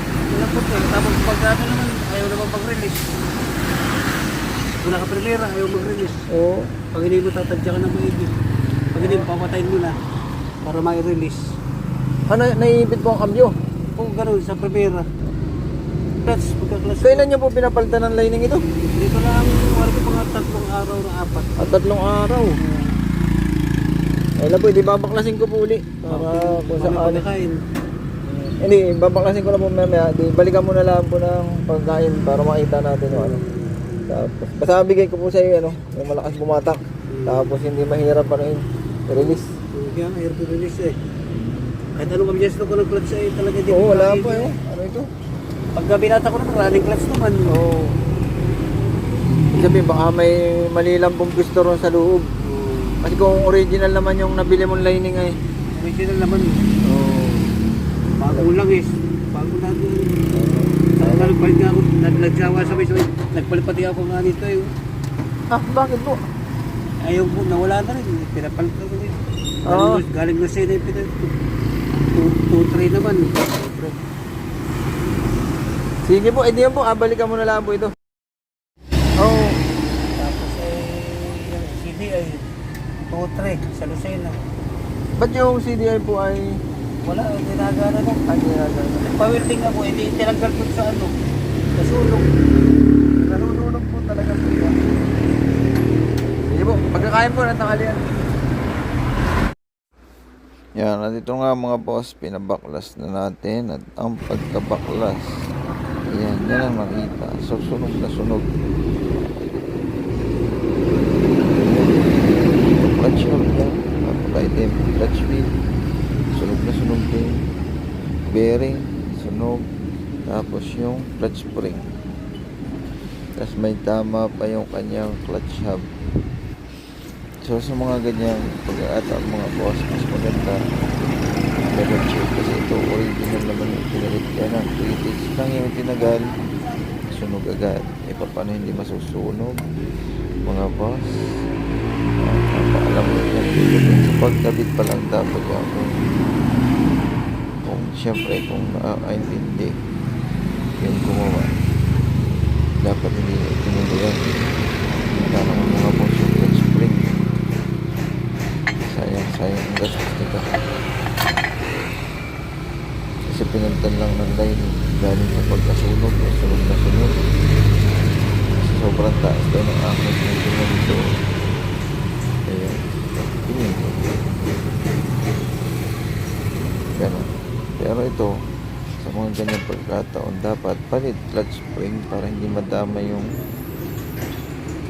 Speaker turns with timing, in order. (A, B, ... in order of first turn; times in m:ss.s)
0:00.3-0:03.0 A
0:04.8-0:06.2 A
0:06.3-0:06.7 B
0:06.9-0:08.3 A
0:08.9-0:09.9 A
0:09.0-0:09.3 B
0:10.6-0:11.4 A
0:12.3-0:13.5 B
0:14.0-0:15.1 A
0:16.2-0:17.3 A
0:17.0-0:18.6 B
0:19.0-0:21.7 A
0:21.6-0:22.6 B
0:22.6-0:22.9 A
0:24.4-0:27.2 B
0:26.0-0:27.6 A
0:28.6-0:33.4 B
0:33.1-0:34.1 A
0:34.1-0:39.5 B
0:37.1-0:37.5 A
0:39.1-0:41.0 A
0:42.0-0:44.5 A
0:43.7-0:45.1 B
0:45.8-0:47.5 A
0:47.5-0:48.0 B
0:49.5-0:52.3 B
0:52.4-0:53.0 A
0:53.0-0:55.4 B
0:55.8-0:56.7 A
0:56.8-0:57.5 B
0:58.2-1:00.2 A
1:00.3-1:01.3 B
1:01.0-1:04.7 A
1:05.5-1:06.2 B
1:07.1-1:11.3 A
1:09.6-1:10.0 B
1:12.1-1:13.5 A
1:13.5-1:13.9 B
1:16.0-1:17.9 B
1:19.2-1:19.6 B
1:20.1-1:22.4 A
1:23.1-1:24.4 A
1:25.2-1:26.4 B
1:27.0-1:28.2 A
1:28.3-1:29.1 B
1:29.0-1:31.1 A
1:31.8-1:32.3 A
1:33.2-1:34.8 B
1:36.5-1:38.2 B
1:40.8-1:45.5 C
1:46.1-1:48.5 C
1:51.6-1:55.5 C
1:56.3-1:57.4 C
1:58.2-1:59.6 C
2:00.2-2:01.8 C
2:03.4-2:05.9 C
2:07.4-2:10.6 C
2:11.7-2:16.4 C
2:17.1-2:19.6 C
2:20.4-2:21.1 C
2:22.2-2:26.0 C
2:27.6-2:29.8 C
2:30.8-2:31.6 C
2:32.8-2:34.2 C
2:35.1-2:37.2 C
2:38.9-2:40.5 C
2:43.3-2:47.2 C
2:48.6-2:51.0 C
2:52.5-2:54.2 C
2:57.0-2:57.2 C
2:57.8-2:58.3 C
2:59.0-3:03.3 C